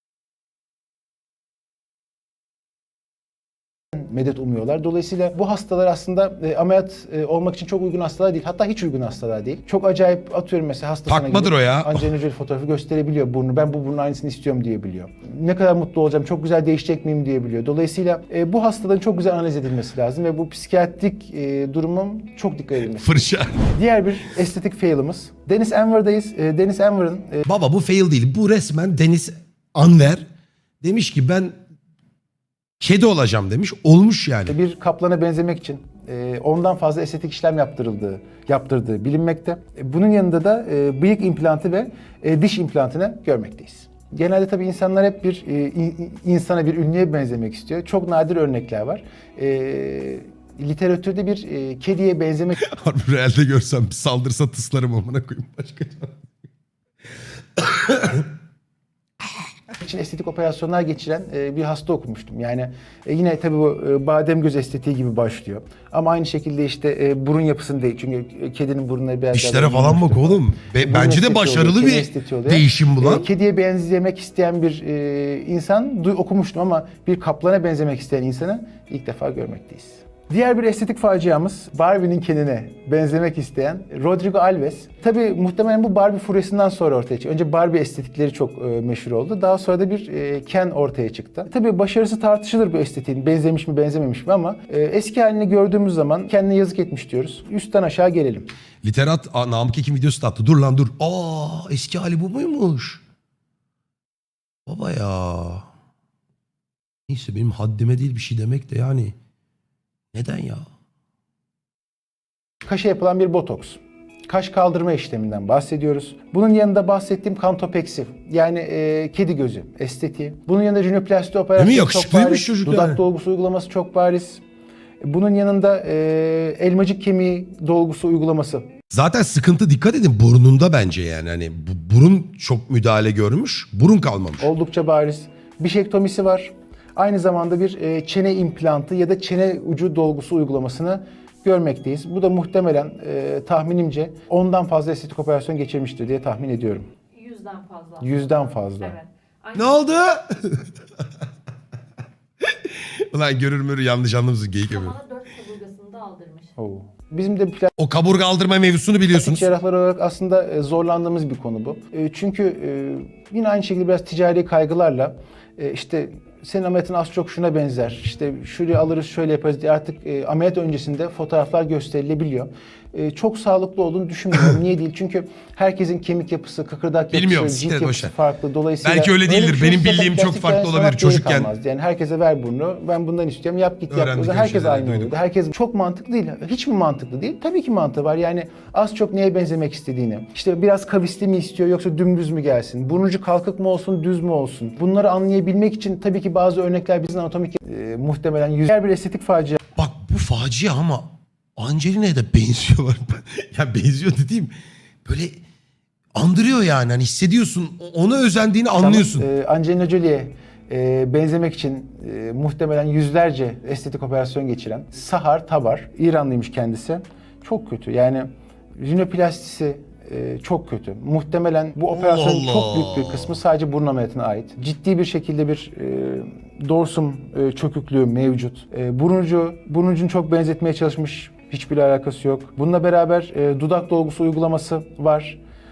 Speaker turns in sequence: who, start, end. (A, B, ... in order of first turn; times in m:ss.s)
0:03.9-0:27.4 A
0:11.1-0:12.0 B
0:22.9-0:23.7 B
0:27.5-0:30.2 B
0:30.8-0:31.6 B
0:32.8-0:34.6 B
0:34.5-0:52.6 A
0:52.6-0:56.2 B
0:57.6-0:58.3 B
0:59.8-1:38.5 A
1:09.3-1:13.3 B
1:38.8-1:43.0 B
1:44.7-1:45.7 B
1:47.1-1:49.2 B
1:50.1-1:50.6 B
1:52.6-2:04.4 A
2:01.6-2:03.0 B
2:05.0-2:08.6 A
2:08.9-2:14.5 B
2:14.4-2:26.9 A
2:27.2-2:29.9 C
2:28.0-2:29.0 A
2:29.6-2:31.1 B
2:32.4-2:35.0 B
2:34.7-2:36.5 C
2:36.6-2:37.7 A
2:37.8-2:39.5 B
2:39.1-3:19.6 A
2:57.1-2:58.1 B
2:58.8-3:01.5 B
3:03.9-3:05.1 B
3:19.8-3:24.5 B
3:25.0-3:25.4 B
3:26.2-3:29.3 B
3:28.8-3:38.3 A
3:38.8-3:55.4 A
3:41.9-3:43.3 B